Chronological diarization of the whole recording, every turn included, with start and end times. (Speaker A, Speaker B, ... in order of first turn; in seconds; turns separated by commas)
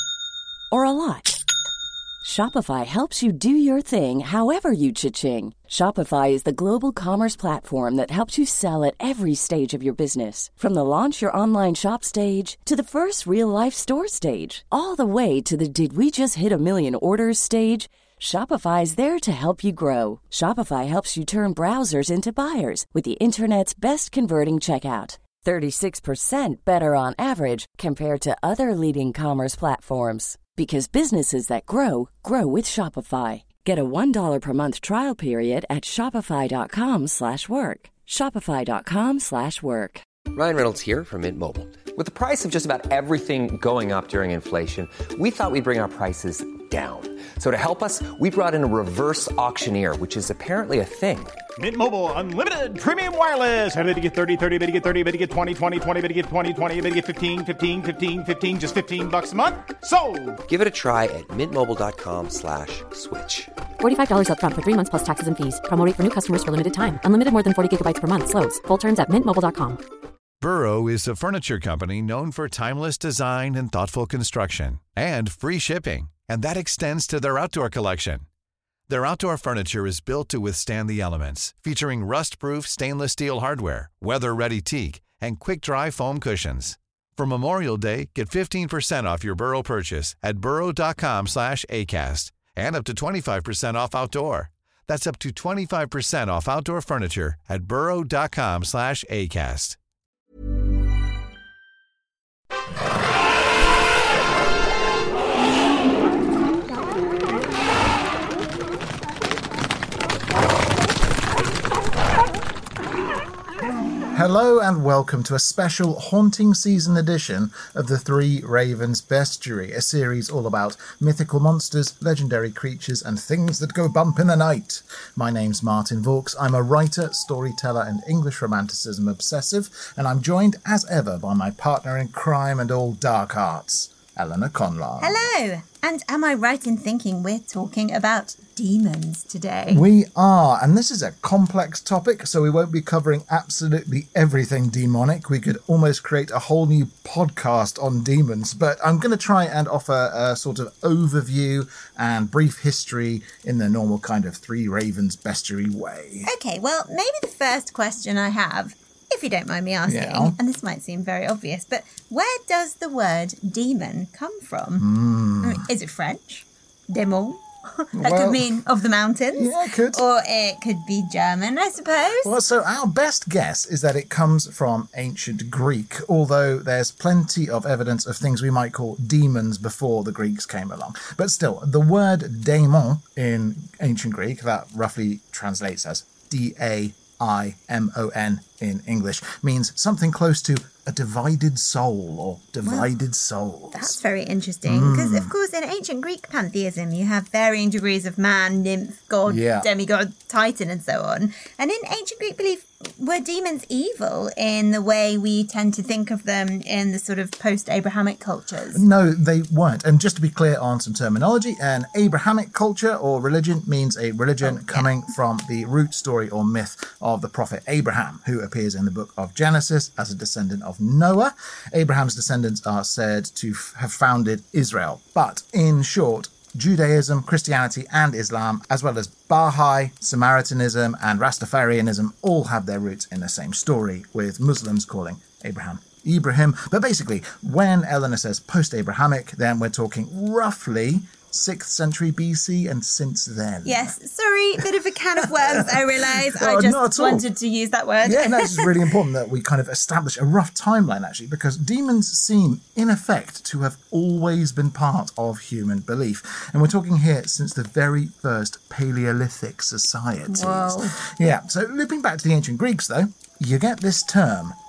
Speaker A: 0.7-1.4, Speaker A: 2.2-40.0, Speaker B: 40.3-51.4, Speaker C: 51.6-60.4, Speaker B: 60.5-63.5, Speaker D: 63.8-69.8, Speaker E: 70.4-78.2, Speaker E: 78.9-99.8, Speaker F: 114.1-135.3, Speaker G: 135.0-139.8, Speaker F: 139.7-156.3, Speaker G: 156.2-164.9, Speaker F: 159.9-160.4, Speaker F: 164.8-165.7, Speaker G: 165.4-172.4, Speaker F: 167.9-168.6, Speaker F: 169.3-170.0, Speaker F: 172.2-194.0, Speaker G: 192.6-192.9, Speaker G: 193.7-208.8, Speaker F: 194.7-195.3, Speaker F: 199.3-199.7, Speaker F: 208.7-243.9, Speaker G: 214.4-214.9, Speaker G: 243.6-248.8, Speaker F: 245.2-247.2, Speaker F: 248.0-264.6, Speaker G: 260.3-261.0